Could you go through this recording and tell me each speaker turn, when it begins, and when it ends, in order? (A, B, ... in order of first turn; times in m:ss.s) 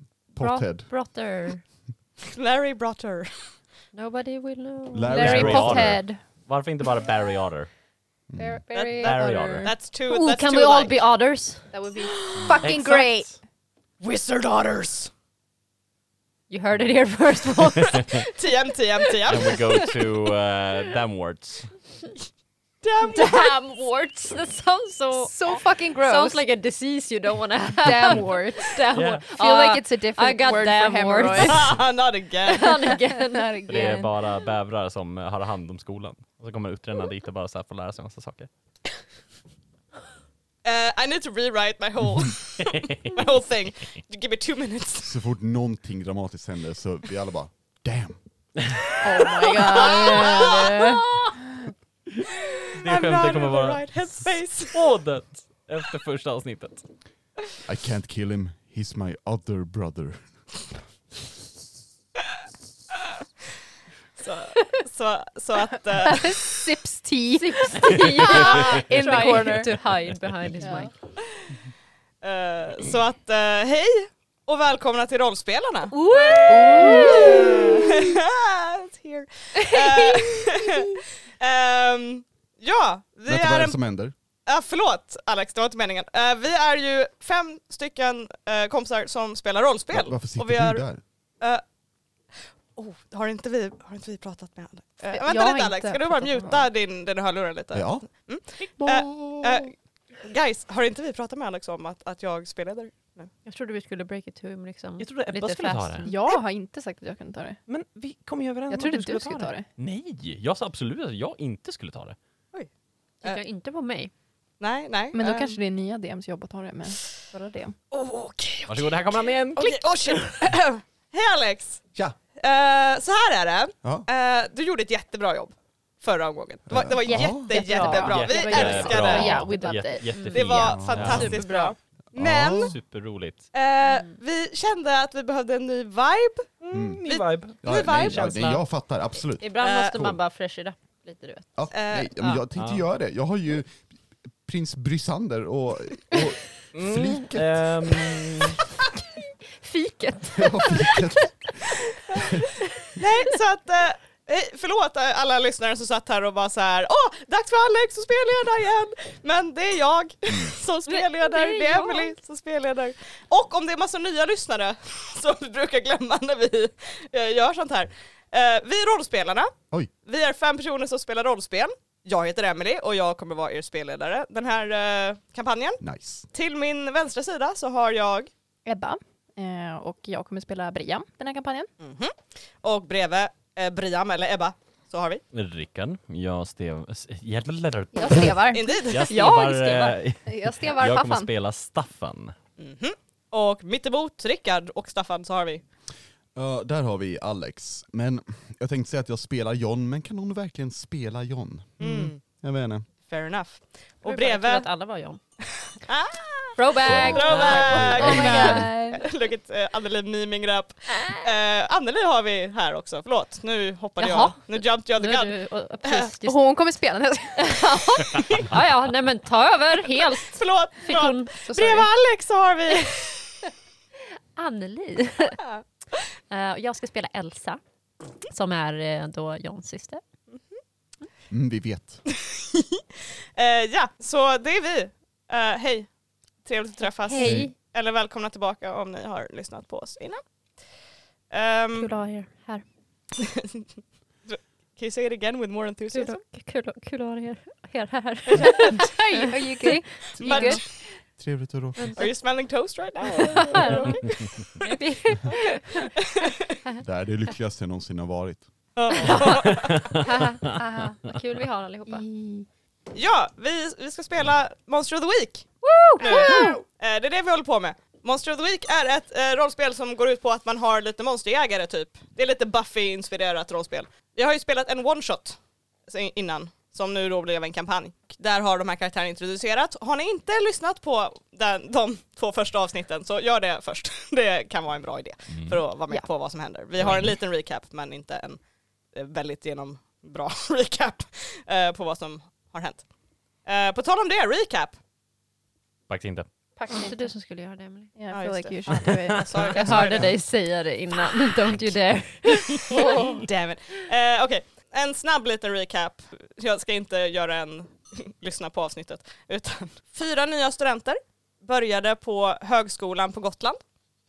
0:00.3-0:00.9 A
0:00.4-0:01.6 B
0:02.2-0:03.5 C
0:03.9-0:05.3 B
0:04.9-0:06.0 A
0:05.1-0:06.2 D
0:05.1-0:07.7 E
0:08.3-0:08.6 A
0:08.4-0:09.7 D
0:08.7-0:11.0 C
0:09.0-0:09.7 E
0:10.1-0:11.7 B
0:11.7-0:13.4 D
0:12.5-0:13.3 E
0:14.0-0:15.1 C
0:14.0-0:14.4 E
0:16.5-0:18.3 B
0:17.6-0:18.3 E
0:18.3-0:19.8 C
0:19.3-0:21.7 E
0:19.5-0:19.9 B
0:22.8-0:23.6 C
0:23.0-0:31.8 B
0:25.2-0:26.4 D
0:27.8-0:31.7 D
0:28.9-0:29.3 E
0:31.4-0:32.9 C
0:32.4-0:33.6 B
0:32.8-0:34.1 D
0:33.7-0:38.5 E
0:40.6-0:45.1 C
0:42.6-0:43.1 E
0:45.0-0:48.2 A
0:48.6-0:49.0 E
0:49.0-0:51.4 D
0:49.5-0:50.8 C
0:50.8-0:51.3 E
0:52.5-0:54.8 C
0:52.7-0:56.8 E
0:57.6-1:00.2 A
1:04.2-1:06.6 C
1:06.0-1:09.7 D
1:07.4-1:10.9 B
1:08.4-1:08.7 E
1:10.6-1:10.9 D
1:12.2-1:23.8 C
1:15.9-1:17.9 B
1:16.4-1:18.1 D
1:19.8-1:20.9 D
1:23.3-1:24.1 A
1:24.4-1:30.8 C
1:29.9-1:31.0 A
1:32.7-1:43.3 C
1:35.1-1:36.7 D
1:37.7-1:38.1 A
1:38.8-1:39.7 A
1:43.4-1:46.2 B
1:45.0-1:46.1 E
1:46.0-1:47.6 D
1:47.7-1:52.2 E
1:48.7-1:49.6 D
1:53.2-1:54.1 B
1:54.6-1:55.6 C
1:55.1-1:57.7 D
1:57.9-2:09.5 C
1:58.7-2:00.4 E
2:03.8-2:04.1 A
2:06.7-2:07.5 A
2:07.2-2:10.7 D
2:07.5-2:10.4 B
2:07.8-2:11.5 E
2:10.3-2:12.8 C
2:10.6-2:11.3 A
2:12.1-2:12.8 A
2:12.6-2:13.5 E
2:13.5-2:16.5 C
2:16.6-2:18.6 E
2:16.7-2:20.1 A
2:17.0-2:18.5 C
2:19.4-2:21.5 B
2:19.6-2:20.1 C
2:21.6-2:23.9 A
2:21.7-2:22.1 C
2:22.6-2:22.8 E
2:24.4-2:28.2 A
2:26.7-2:28.6 E
2:29.6-2:32.0 B
2:30.3-2:32.4 A
2:32.1-2:32.4 C
2:32.6-2:33.0 B
2:33.0-2:55.8 C
2:40.9-2:42.1 B
2:55.8-2:56.3 A
2:56.3-2:58.3 C
2:58.6-3:01.7 D
3:01.8-3:05.2 C
3:05.3-3:12.3 E
3:07.9-3:08.8 D
3:08.5-3:09.2 C
3:09.0-3:10.0 B
3:10.2-3:11.3 D
3:12.6-3:15.6 C
3:16.3-3:22.9 A
3:21.8-3:22.2 C
3:23.0-3:24.7 C
3:24.0-3:25.2 B
3:25.6-3:35.3 C
3:26.6-3:29.0 B
3:26.8-3:28.6 A
3:27.8-3:29.0 D
3:30.9-3:31.2 B
3:34.0-3:36.4 B
3:35.8-3:36.1 C
3:36.2-3:37.8 D
3:37.4-3:41.9 B
3:38.2-3:38.6 C
3:39.8-3:43.4 C
3:41.4-3:41.9 D
3:44.3-3:45.4 B
3:45.2-3:45.6 C
3:46.3-3:47.6 B
3:48.3-3:50.0 B
3:50.3-3:50.6 C
3:51.3-3:52.0 A
3:52.1-3:55.9 C
3:56.4-4:00.2 C
3:56.8-3:57.5 B
3:57.2-3:57.5 A
4:01.3-4:01.9 C
4:01.8-4:02.6 B
4:03.2-4:03.6 C
4:04.2-4:06.2 C
4:05.9-4:10.6 B
4:08.3-4:09.0 C
4:08.4-4:10.6 D
4:10.2-4:10.6 C
4:11.1-4:11.9 A
4:11.8-4:12.0 B
4:12.0-4:14.7 C
4:13.3-4:14.0 B
4:14.6-4:15.9 B
4:15.3-4:16.6 C
4:16.8-4:18.5 A
4:18.8-4:20.0 C
4:18.9-4:22.0 B
4:19.5-4:20.6 E
4:20.5-4:21.0 D
4:21.9-4:22.5 D
4:22.9-4:25.5 C
4:25.6-4:26.6 B
4:26.0-4:48.4 C
4:26.0-4:26.6 D
4:45.3-4:45.6 E
4:46.8-4:47.2 E
4:48.9-4:52.8 C
4:53.4-4:54.8 C
4:55.9-4:56.3 E
4:56.6-4:57.1 D
4:56.7-4:57.9 B
4:58.0-4:59.8 D
4:58.1-5:00.1 C
4:58.8-4:59.9 E
4:59.4-5:03.2 B
5:02.4-5:13.6 C
5:02.7-5:03.2 D